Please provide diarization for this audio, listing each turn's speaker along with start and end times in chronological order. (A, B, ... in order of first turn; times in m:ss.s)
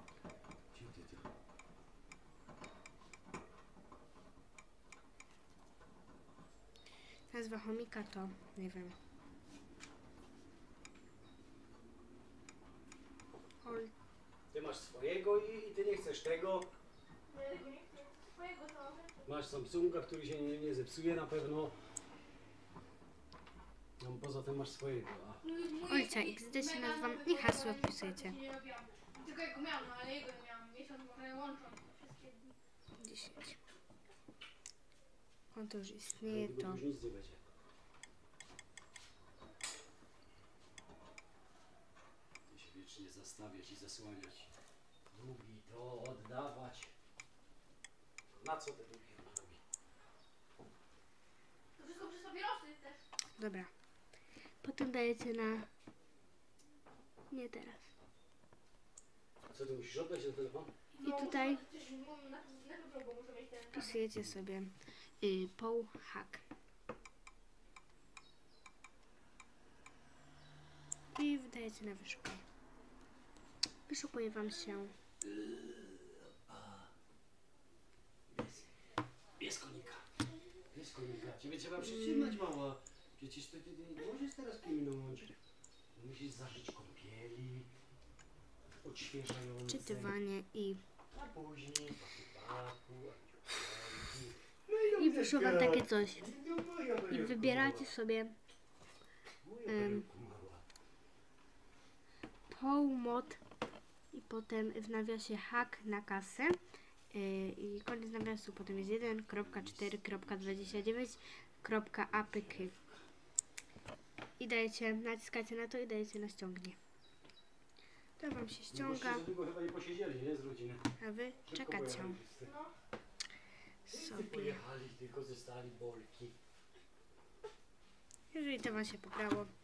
0:00.7-0:01.3 A
0:07.3-0:09.0 B
0:13.6-0:13.9 B
0:14.5-0:16.7 A
0:17.3-0:19.2 C
0:19.2-0:21.7 A
0:24.0-0:25.4 A
0:25.4-0:32.5 C
0:25.9-0:28.4 B
0:33.0-0:33.6 B
0:35.5-0:36.8 B
0:36.2-0:37.4 A
0:42.5-0:44.5 A
0:45.1-0:46.9 A
0:48.3-0:49.6 A
0:51.8-0:53.0 C
0:53.4-0:53.7 B
0:54.6-0:55.7 B
0:57.3-0:57.9 B
0:59.5-1:00.7 A
1:00.9-1:04.0 C
1:01.0-1:01.6 B
1:03.7-1:06.4 B
1:11.1-1:12.4 B
1:13.9-1:14.9 B
1:15.2-1:16.9 A
1:18.3-1:18.6 A
1:19.4-1:20.0 A
1:20.7-1:25.4 A
1:21.8-1:22.4 B
1:25.9-1:27.7 A
1:28.8-1:30.1 A
1:29.6-1:30.8 B
1:31.1-1:37.9 A
1:34.9-1:36.3 B
1:37.1-1:38.4 B
1:39.4-1:40.6 A
1:39.7-1:40.1 B
1:42.5-1:43.4 B
1:44.1-1:46.6 B
1:47.1-1:52.7 B
1:48.6-1:50.8 A
1:54.4-1:56.8 B
1:58.2-1:59.2 B
1:58.7-2:00.8 A
2:01.0-2:02.2 B
2:01.4-2:02.5 A
2:02.4-2:02.7 C
2:03.9-2:04.6 B
2:03.9-2:06.4 A
2:08.3-2:09.5 B